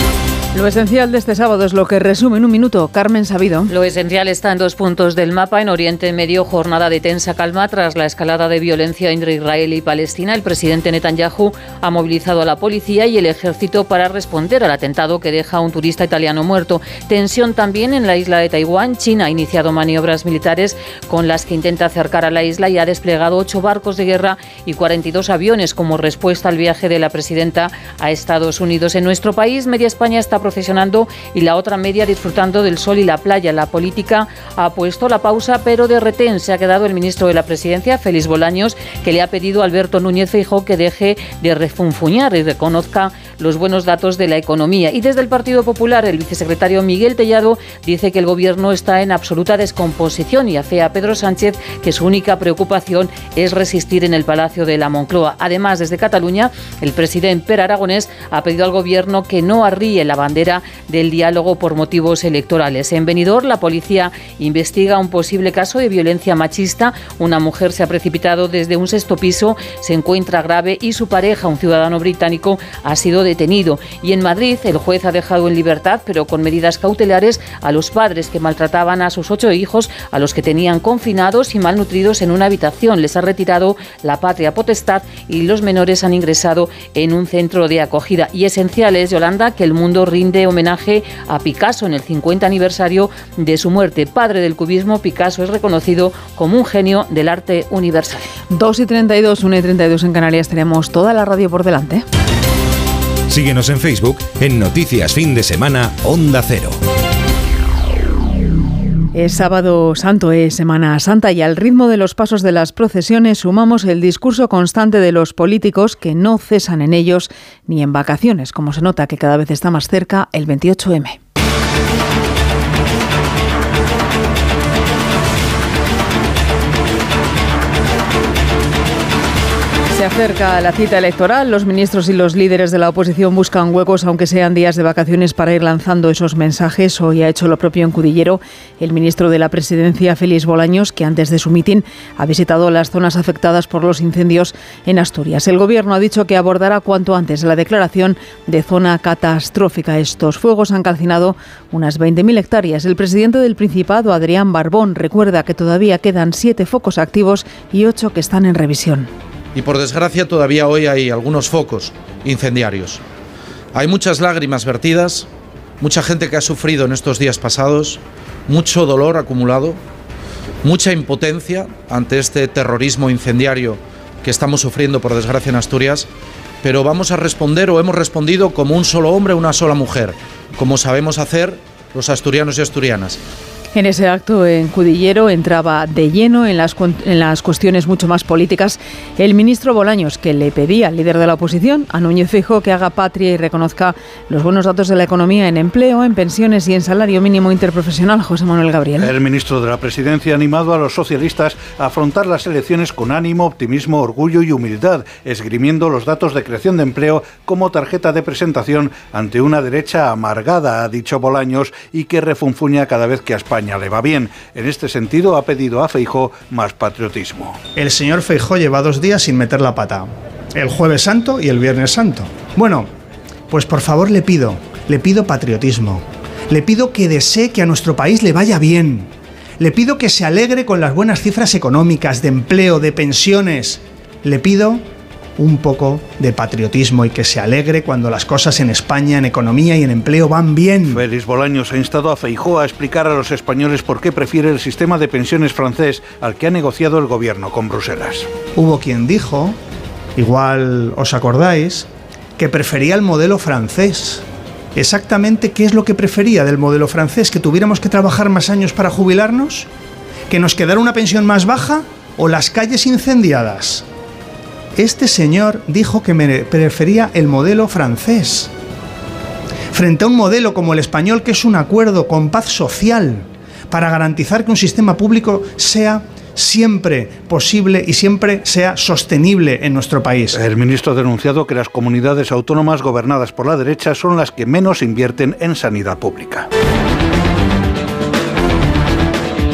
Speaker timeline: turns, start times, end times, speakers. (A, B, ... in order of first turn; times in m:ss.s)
0:00.5-0:03.7 A
0:03.7-1:38.2 B
1:38.5-1:42.0 A
1:43.3-1:46.8 C
1:49.1-2:01.2 A
2:09.9-2:39.1 A
2:39.6-2:43.0 D
2:43.7-2:45.3 D
2:45.8-2:49.8 D
2:50.6-2:56.1 D
2:56.6-3:03.2 D
3:03.7-3:19.1 A
3:19.0-3:37.6 E
3:37.7-3:42.9 F
3:43.5-3:54.8 F
3:55.4-4:01.0 F
4:00.9-4:08.3 E
4:08.5-4:09.6 F
4:10.2-4:11.9 F
4:12.4-4:14.2 F
4:14.8-4:19.7 F
4:20.3-4:23.8 F
4:24.8-4:28.5 F
4:29.7-4:40.4 F
4:40.4-4:46.5 E